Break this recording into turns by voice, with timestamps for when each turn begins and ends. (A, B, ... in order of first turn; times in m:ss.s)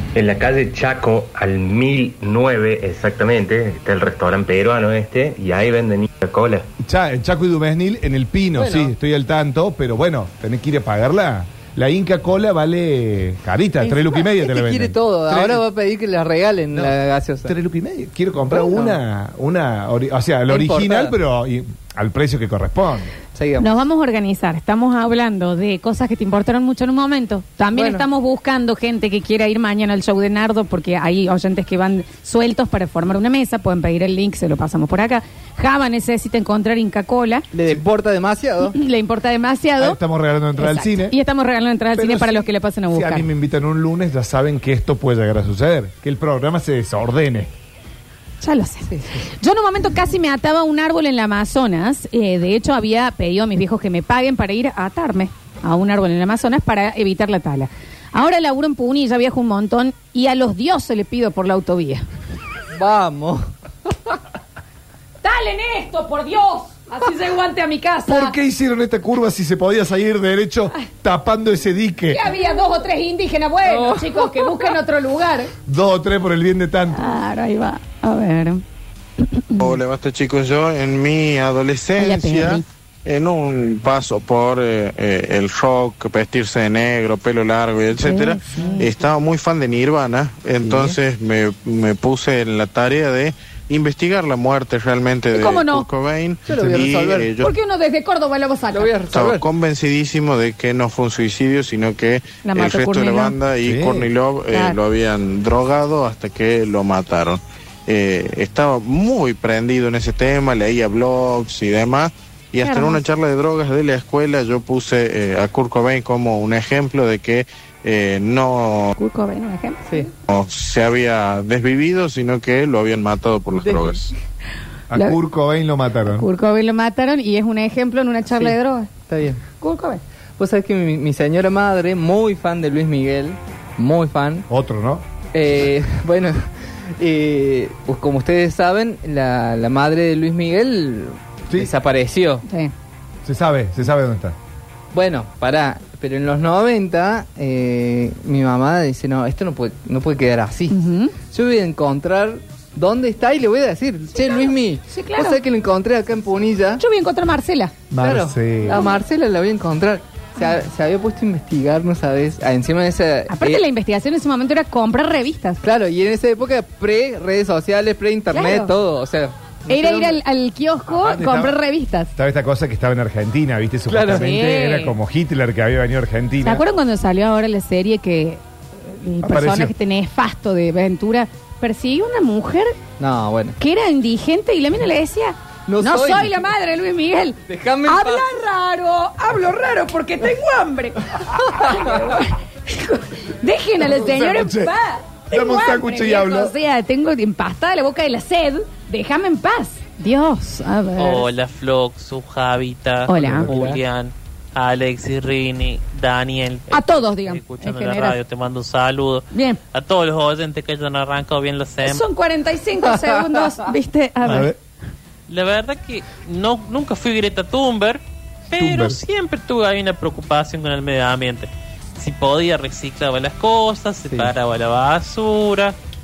0:00.1-0:06.7 A
0:06.8-0:15.6 B
0:08.6-0:08.9 C
0:13.8-0:17.5 C
0:16.7-0:23.1 B
0:18.5-0:19.0 C
0:20.5-0:21.2 C
0:23.3-0:23.7 C
0:23.6-0:37.5 D
0:27.7-0:28.1 C
0:37.5-0:38.8 C
0:38.7-0:40.0 D
0:39.8-0:41.2 B
0:40.6-0:43.3 D
0:41.9-0:47.5 B
0:48.4-1:02.1 D
0:48.9-0:49.2 C
1:02.7-1:03.5 C
1:05.2-1:08.4 D
1:08.1-1:12.2 B
1:12.1-1:15.5 D
1:13.7-1:14.7 C
1:15.7-1:17.0 B
1:16.9-1:18.6 D
1:19.2-1:19.8 D
1:19.6-1:37.5 E
1:22.0-1:22.6 D
1:28.0-1:28.9 D
1:28.6-1:28.9 C
1:30.6-1:31.0 C
1:35.3-1:35.9 D
1:36.5-1:37.3 C
1:37.4-1:38.9 D
1:38.7-1:39.5 C
1:39.1-1:58.9 E
1:42.4-1:43.4 D
1:43.6-1:44.1 B
1:44.5-1:44.8 D
1:52.6-1:53.0 D
1:59.0-2:00.1 D
2:00.3-2:04.1 E
2:03.6-2:04.1 C
2:04.9-2:06.3 B
2:06.1-2:08.9 D
2:08.3-2:09.4 C
2:09.6-2:10.0 D
2:10.4-2:14.5 C
2:14.5-2:15.0 B
2:15.3-2:16.4 C
2:17.0-2:22.4 C
2:22.5-2:22.7 D
2:23.2-2:24.4 B
2:24.9-2:36.8 C
2:30.7-2:31.2 D
2:34.2-2:35.4 D
2:36.8-2:37.8 D
2:37.9-2:38.8 B
2:38.0-2:43.6 C
2:38.7-2:38.9 D
2:43.3-2:45.6 D
2:45.6-2:50.2 C
2:48.3-2:48.7 D
2:49.7-2:52.1 D
2:50.9-2:51.6 B
2:52.2-2:56.6 B
2:53.9-2:54.3 C
2:54.1-2:55.0 D
2:56.4-3:02.8 D
2:59.2-2:59.7 B
3:03.0-3:03.6 C
3:03.6-3:21.3 D
3:05.7-3:06.4 C
3:07.5-3:08.3 C
3:13.8-3:14.7 B
3:15.3-3:16.5 B
3:21.0-3:32.0 F
3:23.1-3:23.5 D
3:23.2-3:23.8 C
3:26.7-3:28.2 D
3:29.3-3:29.6 D
3:31.8-3:34.5 D
3:34.2-3:34.6 B
3:35.3-3:45.8 F
3:38.6-3:39.0 B